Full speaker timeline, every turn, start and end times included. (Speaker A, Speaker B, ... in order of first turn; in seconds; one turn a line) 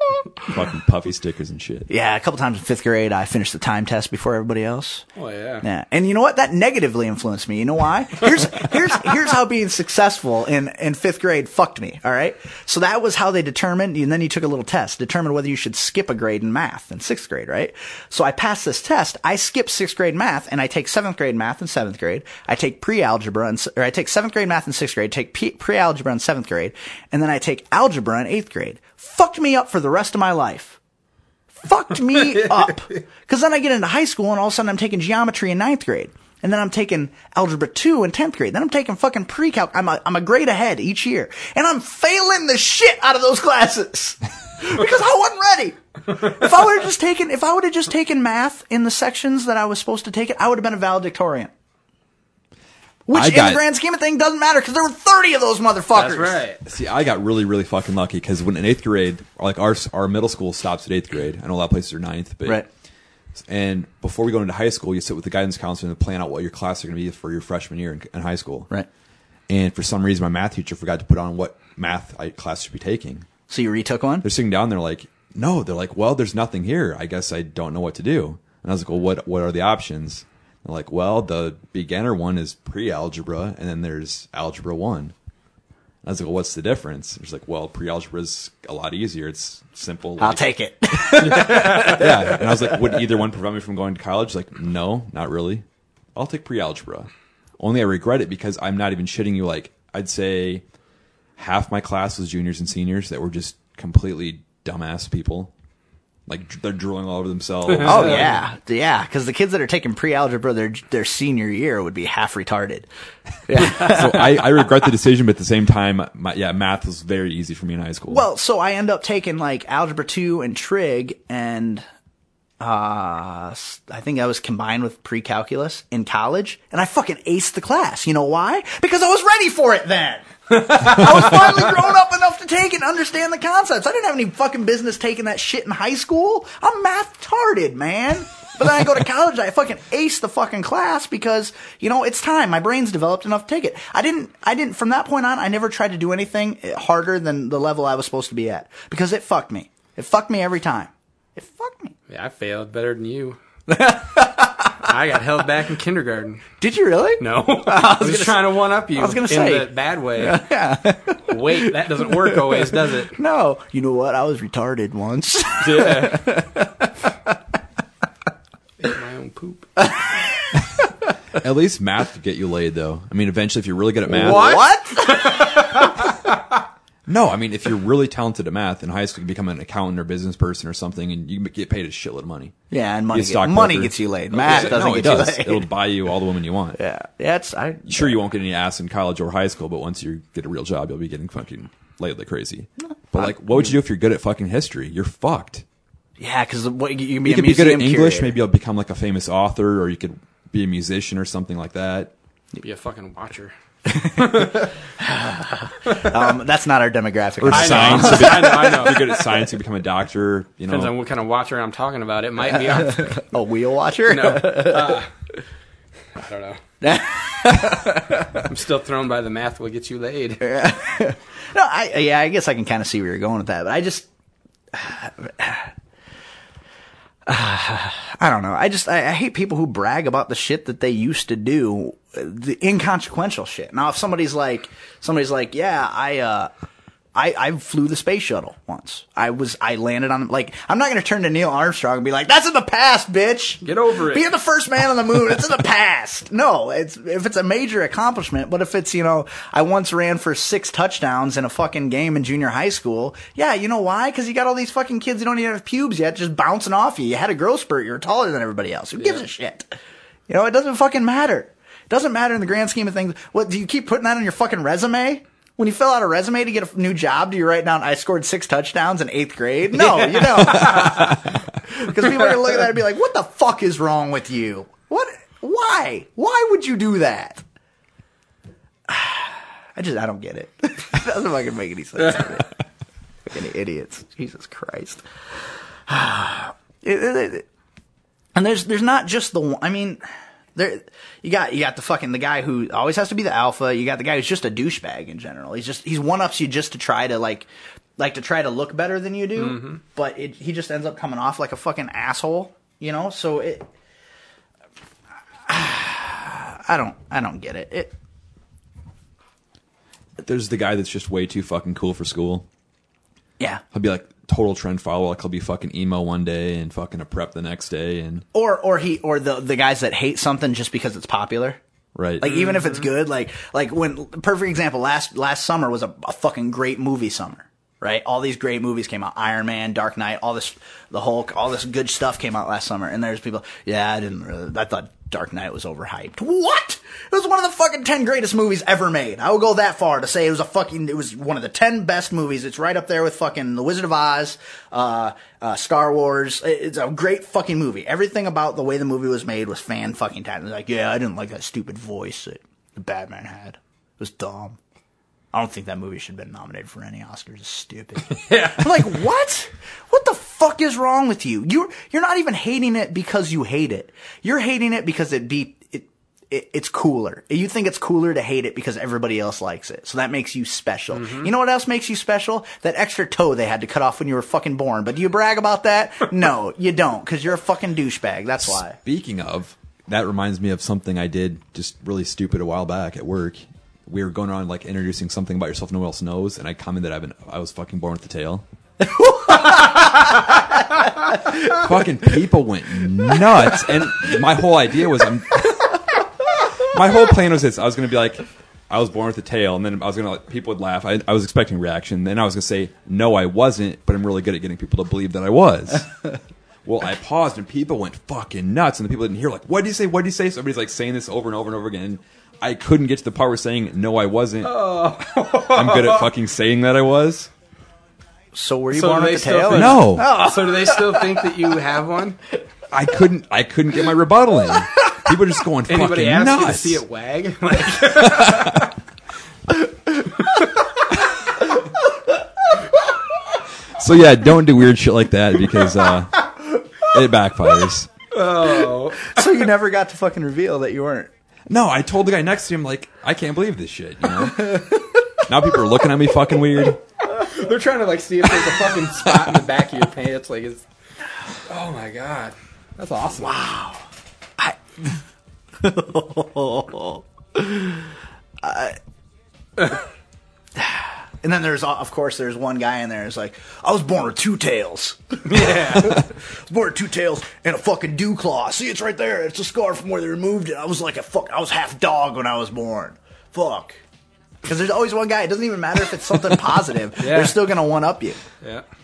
Speaker A: 0.4-1.9
Speaker B: 1.9-5.0
Speaker C: 5.2-5.7
Speaker B: 5.6-30.8
Speaker B: 31.5-51.5
Speaker B: 53.1-56.4
Speaker A: 53.1-53.6
Speaker C: 55.9-56.6
Speaker A: 56.6-62.6
Speaker A: 63.4-68.7
Speaker A: 69.5-73.3
Speaker B: 73.5-74.2
Speaker A: 74.2-85.1
Speaker A: 86.0-100.6
Speaker B: 90.2-93.0
Speaker A: 101.4-105.5
Speaker A: 106.3-108.4
Speaker C: 107.8-108.3
Speaker B: 107.8-112.9
Speaker B: 113.5-114.6
Speaker A: 113.5-118.2
Speaker B: 118.1-121.8
Speaker B: 122.6-151.9
Speaker C: 130.5-131.6
Speaker C: 152.1-153.4
Speaker B: 153.7-154.9
Speaker C: 154.8-156.5
Speaker B: 156.6-167.4
Speaker C: 157.2-160.5
Speaker C: 161.2-163.2
Speaker C: 165.6-166.3
Speaker C: 168.8-169.9
Speaker B: 169.8-170.9
Speaker A: 171.4-174.6
Speaker B: 174.1-175.8
Speaker C: 174.1-176.1
Speaker A: 177.1-182.6
Speaker B: 182.7-185.7
Speaker A: 183.1-186.8
Speaker C: 184.5-184.8
Speaker B: 186.8-188.2
Speaker A: 187.9-195.7
Speaker B: 193.1-193.7
Speaker B: 196.2-198.3
Speaker A: 197.2-202.1
Speaker C: 202.6-203.5
Speaker B: 203.9-209.1
Speaker C: 204.2-204.7
Speaker A: 207.4-210.9
Speaker C: 207.5-209.2
Speaker C: 210.7-213.2
Speaker B: 212.6-215.1
Speaker C: 214.1-215.1
Speaker C: 216.2-216.6
Speaker B: 216.8-218.5
Speaker C: 218.4-220.5
Speaker B: 220.4-224.1
Speaker B: 224.7-225.7
Speaker B: 227.3-236.5
Speaker B: 237.2-259.7
Speaker C: 243.6-244.3
Speaker C: 259.0-259.2
Speaker B: 260.3-277.4
Speaker B: 278.9-282.5
Speaker B: 283.3-285.0
Speaker B: 285.9-287.5
Speaker B: 288.4-290.0
Speaker B: 290.6-303.7
Speaker C: 299.4-299.8
Speaker B: 305.5-307.9
Speaker A: 310.2-312.5
Speaker A: 313.7-318.3
Speaker B: 318.3-321.6
Speaker A: 321.9-322.4
Speaker B: 322.2-354.6
Speaker B: 355.3-378.8
Speaker C: 358.1-358.9
Speaker C: 370.9-371.3
Speaker A: 378.8-388.4
Speaker B: 388.8-391.7
Speaker A: 391.4-395.8
Speaker B: 393.0-394.0
Speaker A: 396.6-406.1
Speaker A: 406.6-414.6
Speaker C: 414.4-416.1
Speaker A: 415.5-417.3
Speaker B: 418.3-421.4
Speaker C: 418.7-422.2
Speaker A: 419.5-420.1
Speaker A: 422.7-426.8
Speaker C: 425.7-428.6
Speaker A: 427.8-428.7
Speaker A: 433.7-437.9
Speaker C: 438.1-439.2
Speaker B: 439.0-441.1
Speaker A: 441.5-446.8
Speaker B: 444.3-445.3
Speaker C: 447.1-450.6
Speaker A: 449.0-449.4
Speaker C: 451.5-453.4
Speaker B: 453.2-453.8
Speaker B: 454.4-455.0
Speaker B: 455.6-458.8
Speaker B: 460.6-473.8
Speaker C: 465.3-466.0
Speaker B: 474.4-478.2
Speaker C: 477.0-477.4